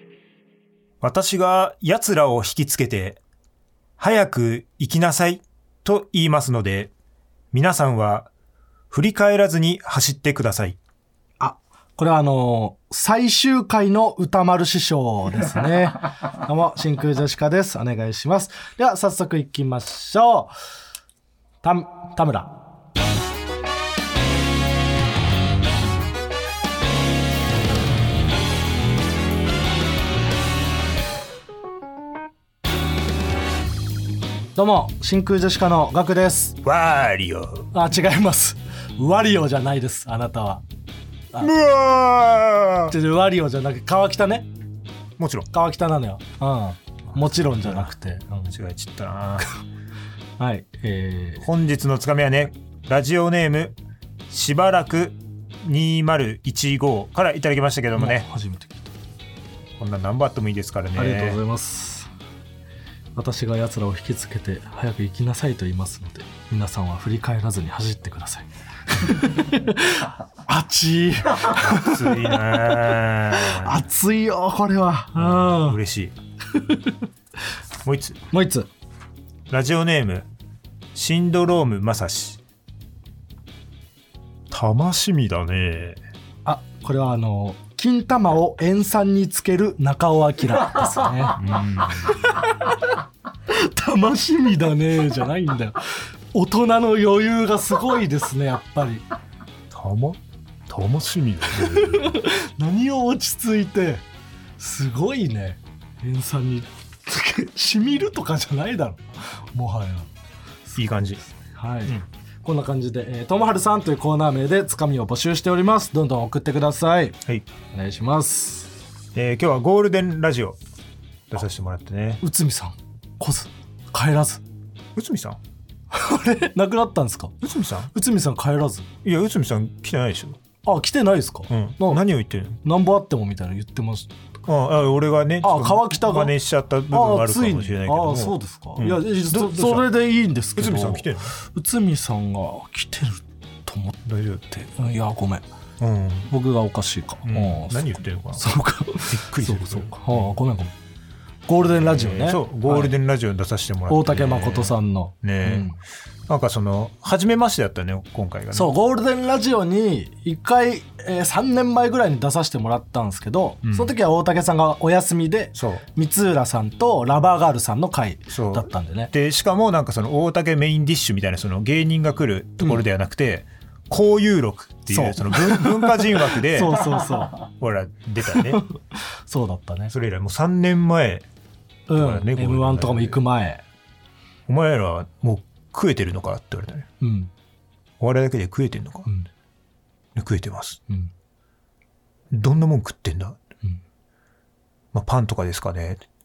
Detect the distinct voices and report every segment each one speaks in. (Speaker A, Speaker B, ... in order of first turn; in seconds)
Speaker A: 1.0-3.2, 4.0-6.9, 7.5-8.3, 8.9-10.8, 36.6-37.7, 41.4-42.9, 45.2-45.5, 47.1-47.9, 48.4-49.5, 51.4-53.7, 54.3-58.2, 59.8-61.4, 71.5-73.8, 75.2-76.1, 77.8-78.2, 79.5-80.3, 80.9-82.4, 84.5-86.0, 91.4-92.2, 99.7-102.0, 110.8-111.2, 119.1-120.6, 121.3-122.2, 125.0-125.4, 127.4-127.9, 129.0-130.4, 131.5-132.6, 134.4-139.9, 140.6-141.3, 144.0-144.7, 145.8-146.3, 147.2-150.3, 151.8-155.7, 156.3-158.7, 163.6-163.9, 165.5-165.8, 168.3-178.6, 179.9-181.2, 181.9-183.2, 184.5-186.9, 188.0-189.1, 190.2-190.8, 192.3-193.4, 194.9-196.0
Speaker B: 11.4-20.5, 21.6-22.6, 34.5-36.6, 37.7-40.6, 42.9-44.5, 45.5-48.5, 50.4-51.5, 58.0-58.9, 61.0-62.1, 63.1-72.6, 73.3-75.8, 78.3-78.7, 86.4-91.4, 93.5-95.8, 96.3-99.0, 101.7-104.0, 104.6-110.1, 111.4-117.2, 117.7-118.7, 122.2-124.4, 125.9-127.3, 127.9-128.9, 130.6-132.0, 132.6-134.1, 135.4-136.3, 136.9-144.0, 144.8-145.4, 146.3-150.7, 151.5-152.9, 153.9-155.8, 158.5-169.1, 174.9-177.4, 178.3-178.6, 179.3-179.9, 181.9-183.6, 187.0-187.3